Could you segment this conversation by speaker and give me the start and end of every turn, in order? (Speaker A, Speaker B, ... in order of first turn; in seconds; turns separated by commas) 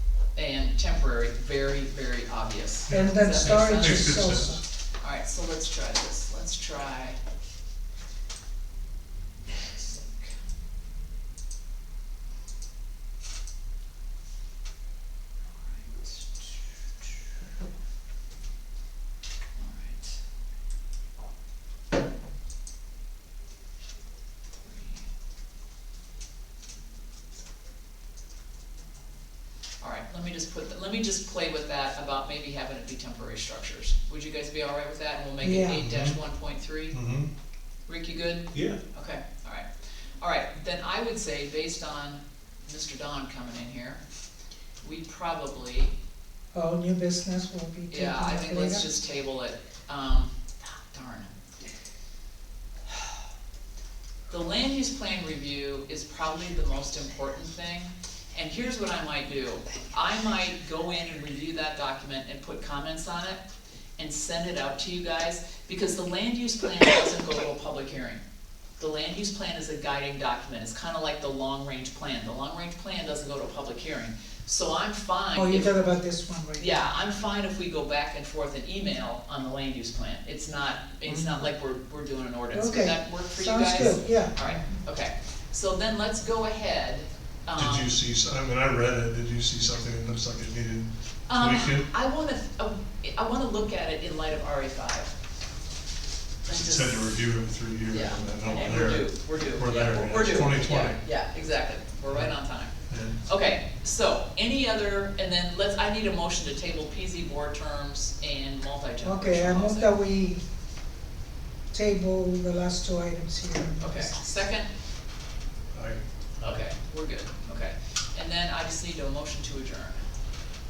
Speaker A: 0.3-4.3, Speaker B: 2.9-4.6, Speaker C: 2.9-4.6, Speaker A: 5.0-7.2, Speaker A: 9.5-10.3, Speaker A: 15.6-16.6, Speaker A: 19.6-20.2, Speaker A: 24.6-25.0, Speaker A: 29.8-37.0, Speaker C: 35.4-35.8, Speaker B: 35.8-36.2, Speaker B: 36.9-37.3, Speaker A: 37.9-39.7, Speaker A: 40.2-44.0, Speaker A: 44.8-45.9, Speaker C: 46.5-48.8, Speaker A: 47.9-51.3, Speaker A: 54.3-63.4, Speaker A: 64.0-68.2, Speaker A: 68.8-75.8, Speaker C: 75.3-76.8, Speaker A: 76.6-87.9, Speaker B: 81.1-81.4, Speaker C: 82.5-84.3, Speaker B: 87.5-91.9, Speaker A: 91.3-95.1, Speaker A: 96.5-97.1, Speaker B: 96.5-101.0, Speaker A: 97.9-102.7, Speaker B: 102.9-103.2, Speaker A: 103.2-109.9, Speaker C: 109.0-110.4, Speaker C: 111.7-114.1, Speaker A: 113.8-114.7, Speaker B: 115.7-116.0, Speaker A: 116.4-120.0